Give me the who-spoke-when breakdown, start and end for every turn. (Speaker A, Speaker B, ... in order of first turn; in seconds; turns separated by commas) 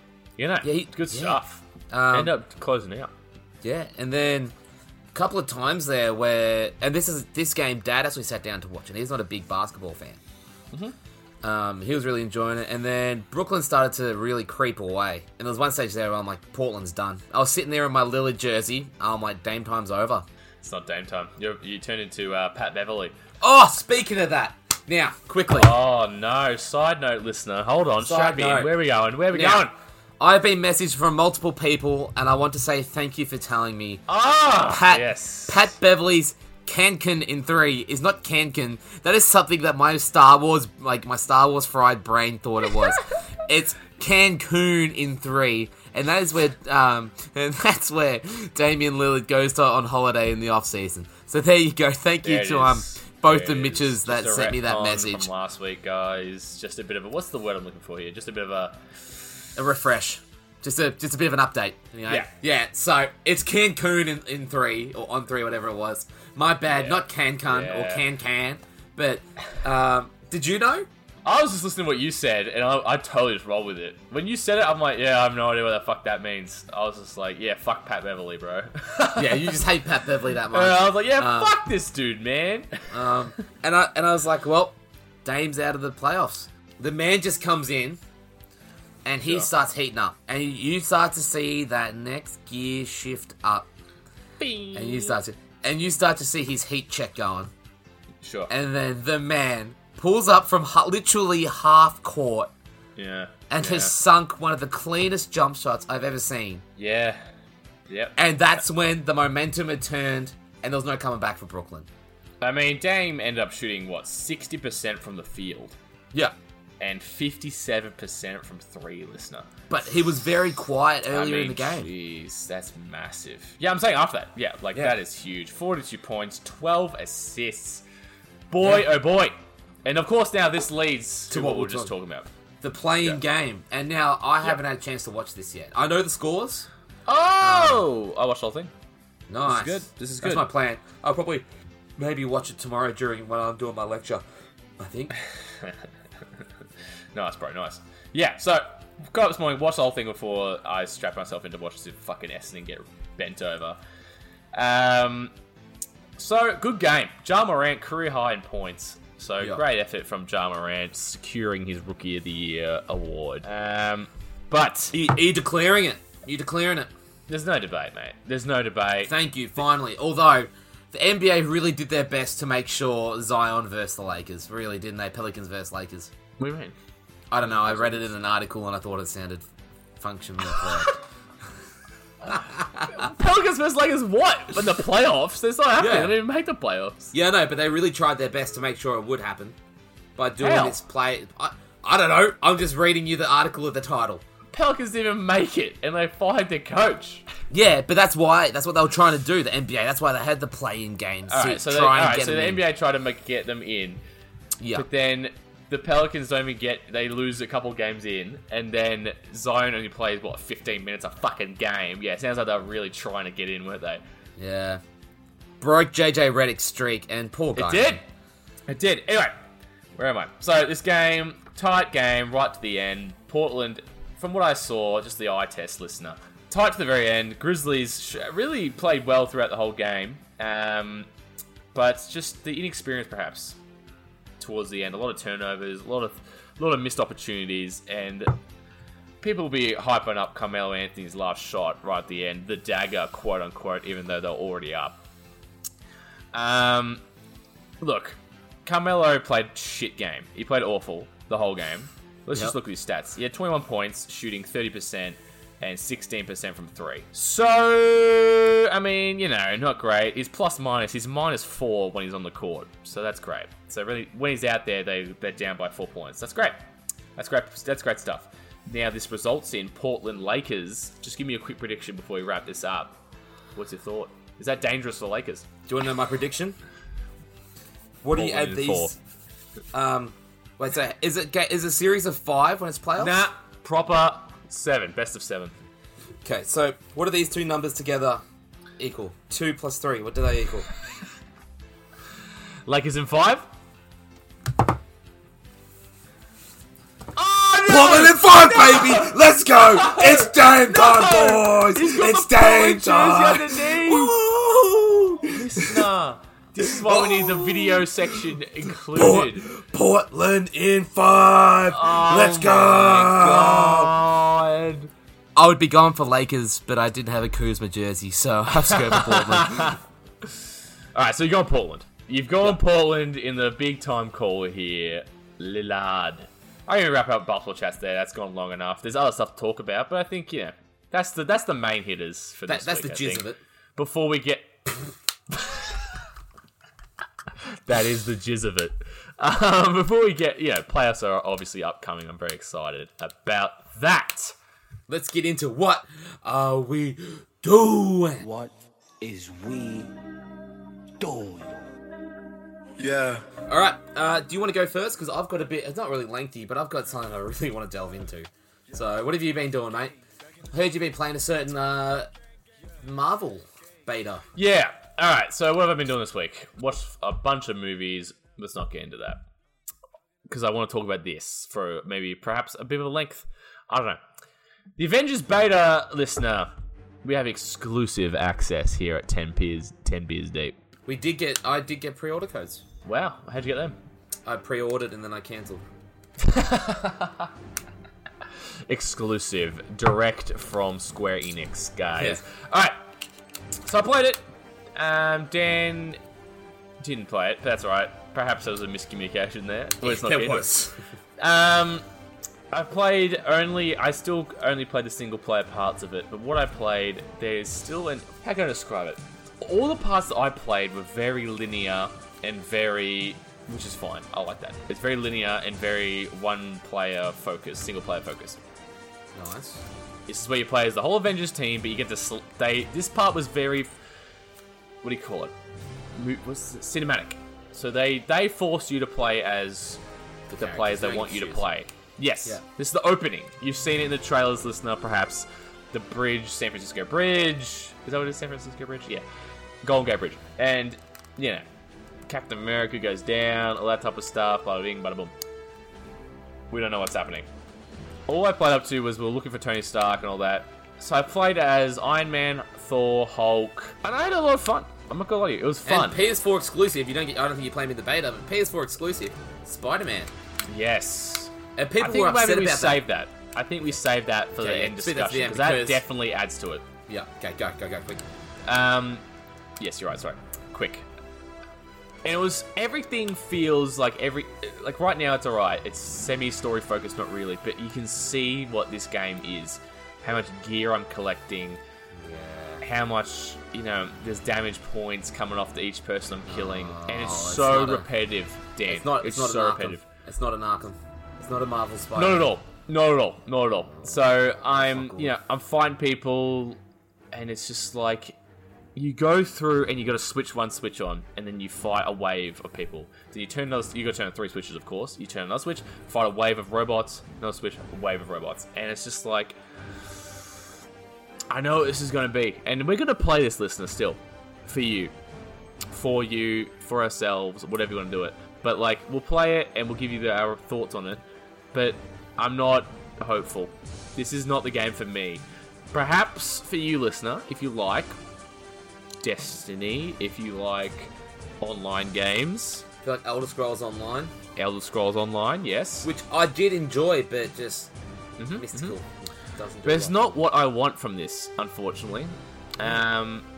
Speaker A: 0.4-3.1, Speaker B: 0.6-2.3, Speaker B: 3.6-4.5, Speaker B: 5.1-10.2, Speaker B: 11.4-20.2, Speaker A: 20.6-23.1, Speaker B: 23.4-25.7, Speaker A: 25.5-29.7, Speaker B: 28.0-28.7, Speaker B: 29.3-29.7, Speaker B: 30.2-34.0, Speaker A: 34.1-35.7, Speaker B: 34.6-55.3, Speaker A: 52.2-58.8, Speaker B: 59.5-70.9, Speaker A: 62.0-62.3, Speaker A: 66.7-68.0, Speaker A: 71.2-79.6, Speaker B: 79.1-81.5, Speaker A: 80.5-82.8, Speaker B: 82.9-88.0, Speaker B: 89.0-93.7, Speaker A: 89.2-89.5, Speaker A: 94.4-95.2, Speaker B: 94.7-97.5, Speaker A: 98.2-98.5, Speaker B: 98.5-102.5, Speaker A: 103.0-103.9, Speaker B: 103.5-106.6, Speaker A: 106.8-107.2, Speaker A: 107.9-108.2, Speaker B: 108.2-111.9, Speaker A: 112.4-115.8, Speaker A: 116.8-119.5, Speaker B: 119.7-121.9, Speaker A: 121.1-127.8, Speaker A: 128.5-132.3, Speaker B: 131.3-131.9, Speaker B: 132.6-136.7, Speaker A: 137.1-138.7, Speaker B: 137.4-137.9, Speaker B: 139.3-141.4, Speaker A: 139.4-140.5, Speaker B: 142.0-144.2, Speaker B: 144.8-145.2, Speaker A: 145.2-153.8, Speaker A: 154.5-155.3, Speaker A: 156.2-164.9, Speaker B: 164.9-166.9, Speaker A: 167.3-169.1, Speaker B: 169.1-176.1, Speaker A: 176.4-176.8, Speaker B: 177.3-179.4, Speaker A: 177.4-178.1, Speaker B: 180.0-181.0, Speaker A: 180.5-180.8, Speaker B: 182.2-183.1, Speaker A: 182.8-187.1, Speaker B: 185.8-186.2, Speaker B: 187.1-189.6, Speaker B: 190.2-194.2, Speaker A: 190.4-190.8, Speaker A: 194.5-197.3, Speaker B: 197.5-202.6, Speaker A: 201.3-204.0, Speaker B: 204.6-204.8, Speaker A: 204.7-214.0, Speaker B: 214.4-214.8, Speaker B: 215.6-218.0, Speaker A: 217.5-218.0, Speaker A: 218.7-219.3, Speaker A: 219.9-231.1, Speaker A: 231.7-233.6, Speaker A: 234.4-238.3, Speaker A: 239.2-245.0, Speaker A: 246.3-247.0, Speaker A: 247.8-266.6, Speaker A: 267.1-273.0, Speaker A: 273.5-275.5, Speaker B: 275.7-276.6, Speaker B: 278.0-278.9, Speaker A: 278.1-278.9, Speaker B: 279.7-283.2, Speaker A: 283.0-285.5, Speaker B: 286.2-288.2, Speaker B: 288.8-290.7, Speaker A: 292.6-293.4, Speaker A: 297.1-304.2, Speaker B: 297.6-305.9, Speaker A: 305.3-309.5, Speaker B: 306.6-308.2, Speaker B: 308.9-313.9, Speaker A: 311.7-314.9, Speaker B: 315.4-319.8, Speaker A: 318.6-333.2, Speaker B: 332.5-333.4, Speaker A: 333.8-336.0, Speaker A: 337.4-344.3, Speaker B: 344.9-348.2, Speaker C: 348.2-349.9, Speaker C: 351.0-351.7, Speaker C: 352.8-353.2, Speaker B: 353.5-359.9, Speaker B: 360.5-362.1, Speaker B: 362.8-364.3, Speaker A: 364.3-369.2, Speaker A: 370.3-374.0, Speaker A: 374.8-376.5, Speaker A: 377.0-380.6, Speaker B: 380.9-382.6, Speaker A: 382.8-383.8, Speaker B: 384.2-385.6, Speaker A: 386.2-387.3, Speaker A: 388.7-392.8, Speaker B: 392.0-392.2, Speaker A: 393.6-394.2, Speaker A: 394.8-396.0, Speaker A: 396.8-400.5, Speaker B: 399.8-400.8, Speaker A: 401.2-401.8, Speaker A: 402.5-418.4, Speaker B: 419.1-419.6, Speaker A: 420.1-423.7, Speaker A: 424.8-425.3, Speaker A: 425.9-429.8, Speaker B: 430.3-431.5, Speaker A: 430.3-439.0, Speaker A: 439.6-441.4, Speaker A: 442.1-445.1, Speaker A: 446.5-447.3, Speaker A: 448.1-456.0, Speaker B: 455.6-460.1, Speaker A: 460.4-466.6, Speaker B: 461.6-462.8, Speaker B: 464.4-465.8, Speaker B: 466.9-468.0, Speaker A: 468.4-469.0, Speaker A: 469.6-470.9, Speaker A: 472.0-481.6, Speaker B: 481.9-482.6, Speaker A: 482.6-489.8, Speaker B: 486.3-487.9, Speaker B: 488.6-492.3, Speaker A: 491.9-496.6, Speaker B: 494.7-495.1, Speaker A: 497.1-498.1, Speaker A: 498.7-509.4, Speaker A: 511.3-514.9, Speaker A: 515.7-521.0, Speaker A: 521.5-528.0, Speaker A: 529.0-532.6, Speaker B: 532.8-534.1, Speaker A: 534.4-535.9, Speaker B: 535.8-537.7, Speaker A: 538.2-538.7, Speaker B: 538.3-540.2, Speaker A: 539.6-543.3